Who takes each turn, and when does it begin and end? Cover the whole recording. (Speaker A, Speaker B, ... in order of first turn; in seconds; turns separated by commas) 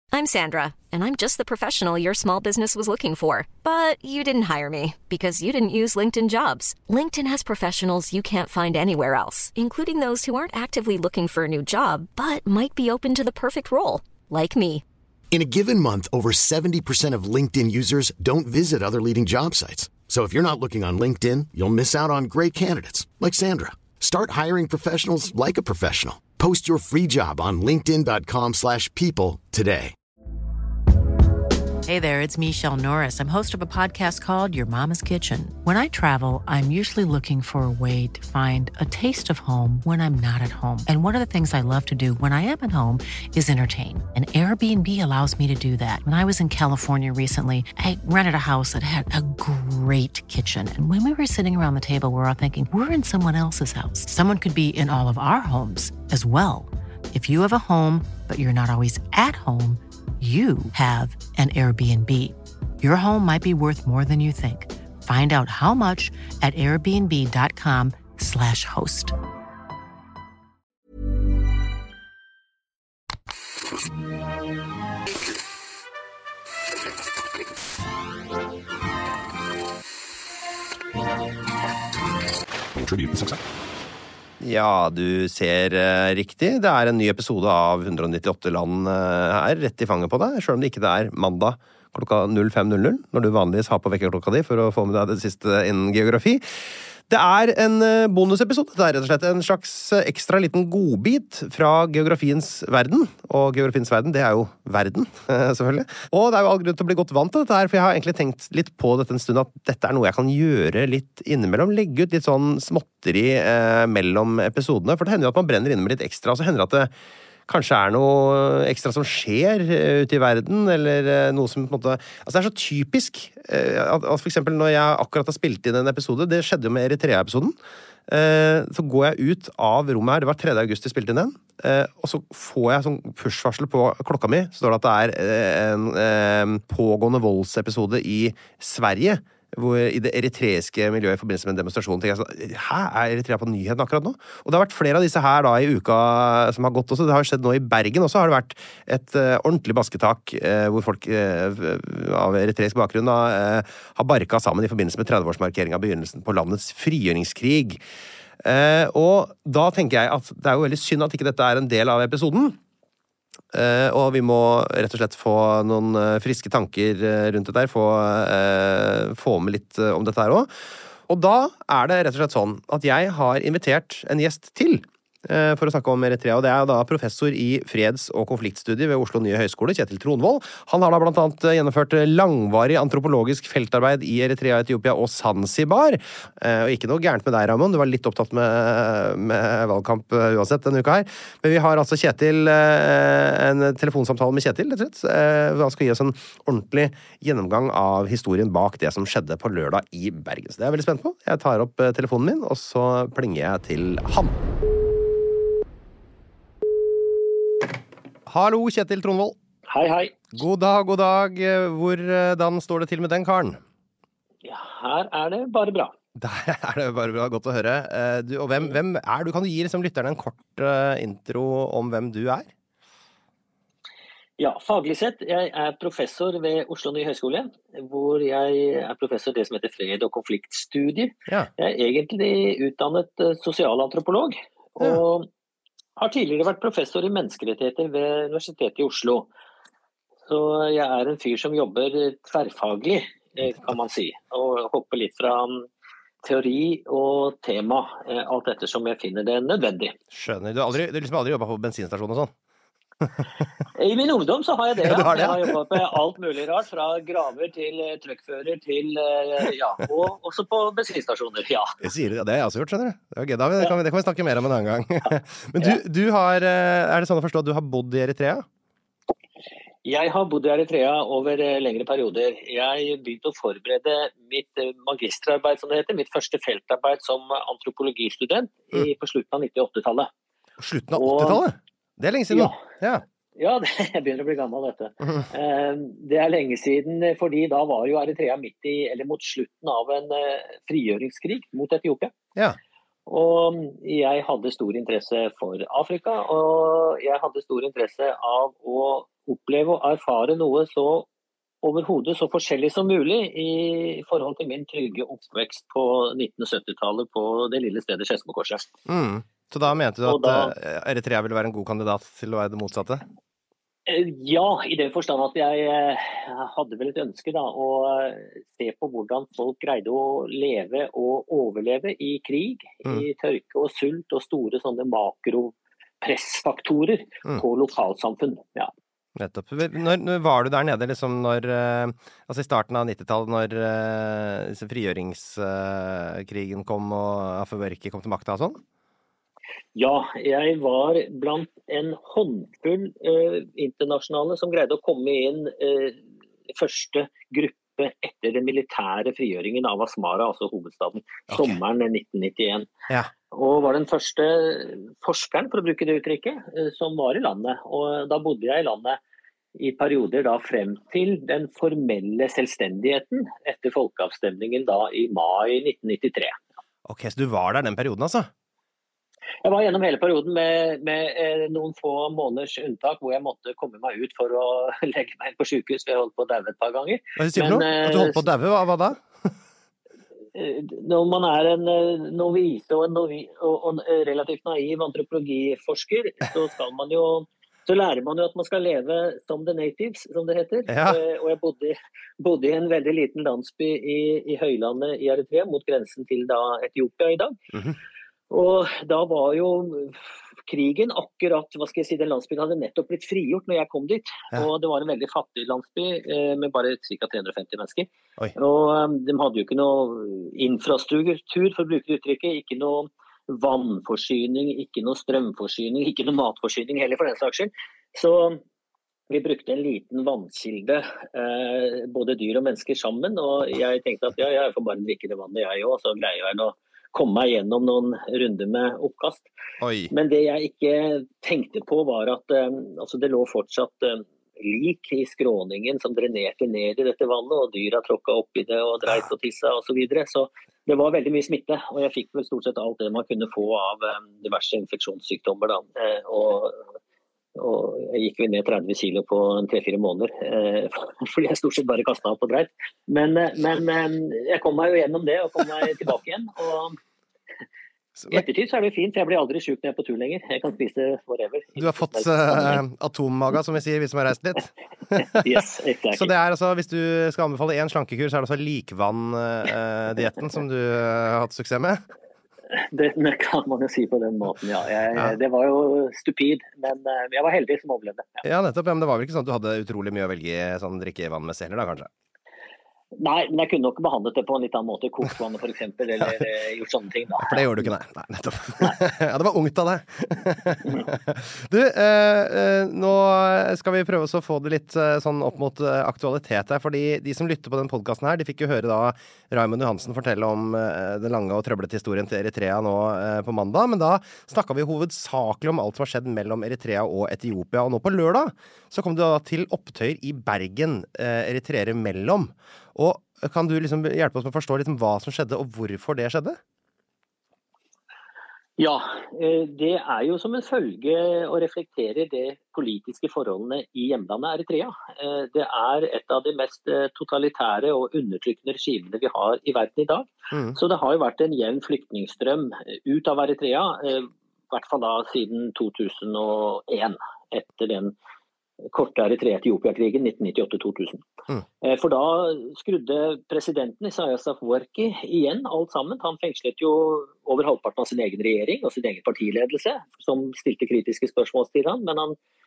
Speaker A: 0.1-14.8, Speaker B: 15.3-29.9, Speaker C: 31.9-69.1, Speaker B: 82.8-83.3, Speaker D: 84.4-116.9, Speaker D: 117.5-127.5, Speaker D: 128.1-157.8, Speaker D: 158.4-162.6, Speaker D: 163.5-170.5, Speaker D: 171.1-204.4, Speaker D: 208.3-209.4, Speaker E: 209.7-210.1, Speaker D: 210.3-213.6, Speaker E: 214.4-215.9, Speaker D: 216.2-222.5, Speaker E: 224.4-235.3, Speaker E: 236.0-239.3, Speaker E: 240.3-245.7, Speaker E: 246.2-249.9, Speaker D: 250.1-252.3, Speaker E: 253.7-261.8, Speaker D: 254.8-255.9, Speaker D: 261.8-268.4, Speaker E: 269.8-280.1, Speaker D: 280.6-283.0, Speaker E: 280.9-281.4, Speaker E: 282.3-282.6, Speaker E: 283.4-292.1, Speaker E: 293.1-301.1, Speaker E: 301.6-308.6, Speaker D: 308.9-313.0, Speaker E: 310.0-310.5, Speaker E: 313.9-328.7, Speaker D: 329.1-338.6, Speaker E: 339.7-352.7, Speaker D: 351.3-351.6, Speaker E: 353.3-359.0, Speaker E: 359.5-366.4, Speaker D: 366.9-368.3, Speaker E: 369.4-378.2, Speaker D: 377.2-379.3, Speaker E: 380.3-397.4, Speaker D: 390.7-391.0, Speaker E: 398.3-418.4, Speaker E: 419.1-429.3, Speaker D: 429.6-429.9, Speaker E: 429.9-446.6, Speaker E: 447.4-456.8, Speaker D: 458.0-458.2, Speaker E: 458.1-462.6, Speaker D: 461.6-465.3, Speaker E: 465.0-466.1, Speaker D: 465.9-471.9, Speaker E: 472.5-478.2, Speaker D: 478.2-481.9, Speaker E: 483.0-487.7, Speaker D: 487.2-516.4, Speaker E: 490.6-490.9, Speaker E: 518.6-537.9, Speaker D: 530.3-530.6, Speaker E: 538.7-541.0, Speaker E: 541.6-552.1